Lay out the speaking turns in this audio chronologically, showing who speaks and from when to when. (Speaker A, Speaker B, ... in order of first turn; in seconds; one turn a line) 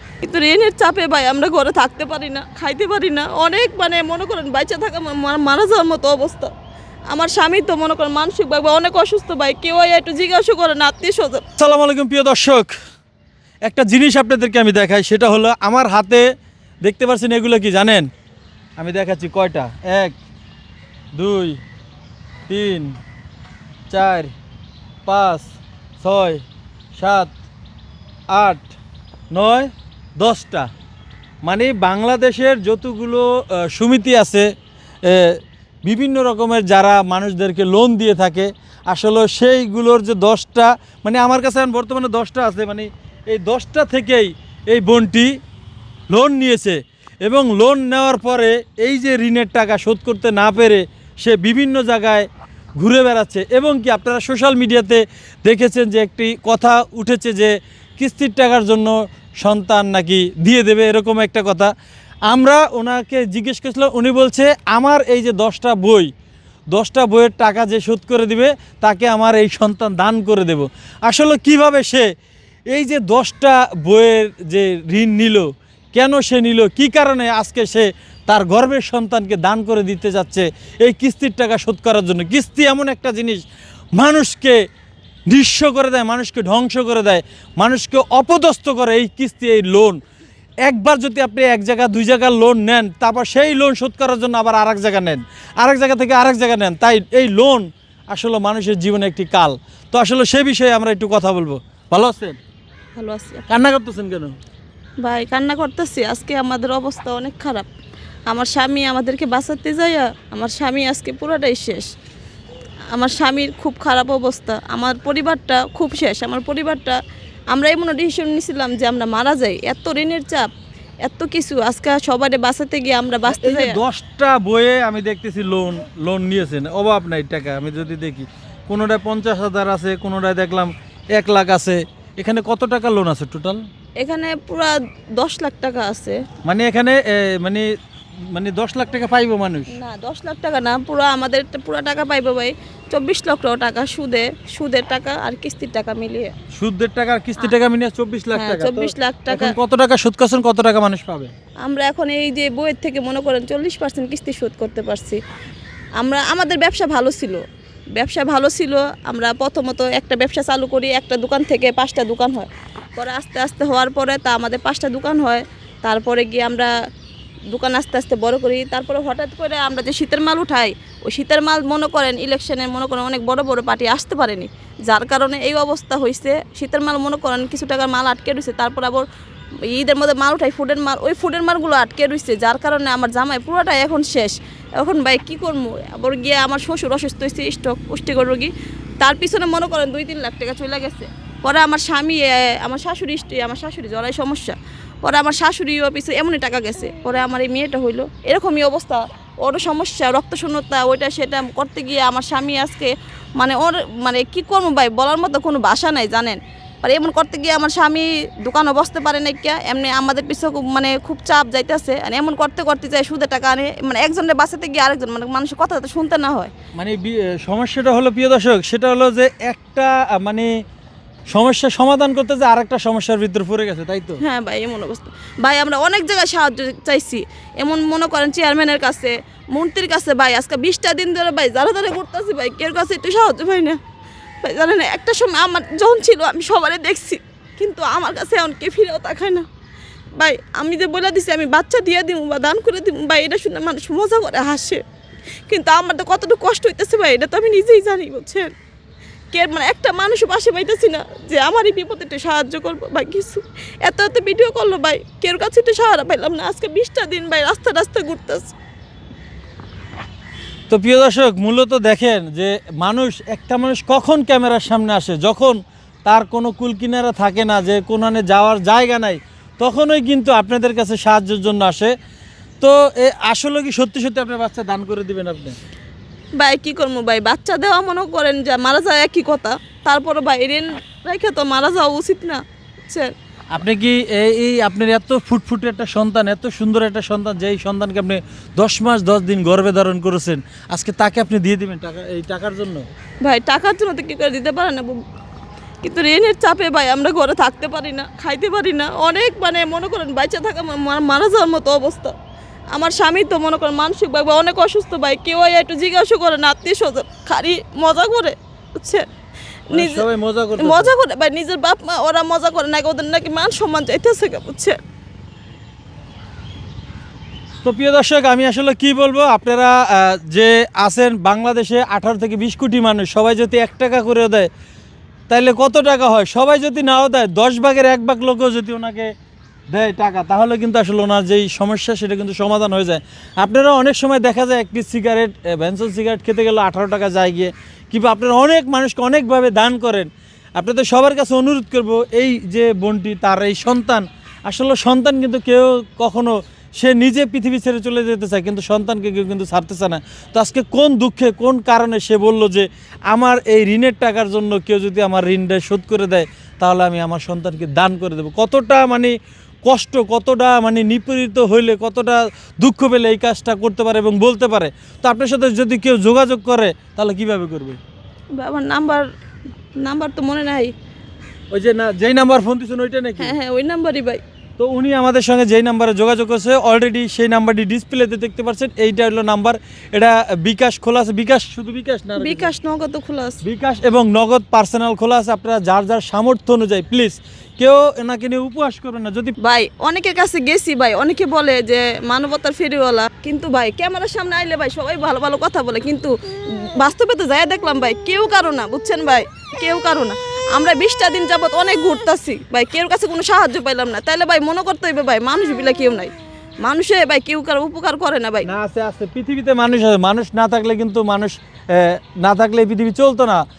Speaker A: 0.2-6.5
Speaker A: 7.1-11.4
Speaker B: 11.6-12.7
Speaker B: 13.7-16.2
Speaker B: 16.8-18.1
Speaker B: 18.8-20.2
Speaker B: 21.1-21.6
Speaker B: 22.5-23.0
Speaker B: 23.9-24.3
Speaker B: 25.1-25.5
Speaker B: 26.0-26.4
Speaker B: 27.0-27.3
Speaker B: 28.3-28.8
Speaker B: 29.3-30.7
Speaker B: 31.4-34.5
Speaker B: 35.0-45.4
Speaker B: 46.1-52.3
Speaker B: 52.8-61.7
Speaker B: 62.3-66.1
Speaker B: 66.7-72.1
Speaker B: 72.7-83.4
Speaker B: 84.0-84.6
Speaker B: 85.3-90.0
Speaker B: 90.7-102.4
Speaker A: 103.0-103.5
Speaker B: 103.5-104.4
Speaker A: 105.0-107.7
Speaker A: 108.3-111.9
Speaker A: 112.9-117.0
Speaker A: 117.5-120.5
Speaker A: 121.0-123.8
Speaker B: 123.3-133.7
Speaker A: 134.0-136.2
Speaker B: 136.4-137.7
Speaker B: 138.3-139.7
Speaker A: 139.7-146.3
Speaker B: 146.5-151.3
Speaker A: 148.3-149.6
Speaker A: 151.6-155.2
Speaker A: 156.0-157.4
Speaker A: 157.9-166.7
Speaker A: 167.5-179.1
Speaker A: 179.7-216.5
Speaker B: 216.8-220.5
Speaker B: 221.3-224.2
Speaker A: 224.2-233.8
Speaker A: 234.4-239.5
Speaker A: 240.2-244.8
Speaker A: 245.5-248.5
Speaker A: 249.3-258.5
Speaker B: 260.7-271.9
Speaker B: 272.6-275.6
Speaker A: 276.4-283.1
Speaker B: 283.5-292.9
Speaker A: 293.2-295.0
Speaker A: 295.8-302.1
Speaker A: 302.7-309.1
Speaker A: 309.7-310.1
Speaker B: 309.7-310.9
Speaker A: 310.6-314.8
Speaker B: 317.6-324.5
Speaker B: 325.3-329.1
Speaker B: 329.7-367.8
Speaker A: 368.3-369.1
Speaker A: 369.8-370.7
Speaker B: 371.5-373.4
Speaker A: 373.2-374.2
Speaker B: 374.6-382.5
Speaker A: 382.2-383.4
Speaker B: 383.4-389.4
Speaker A: 389.4-406.1
Speaker A: 406.6-408.5
Speaker B: 408.4-413.4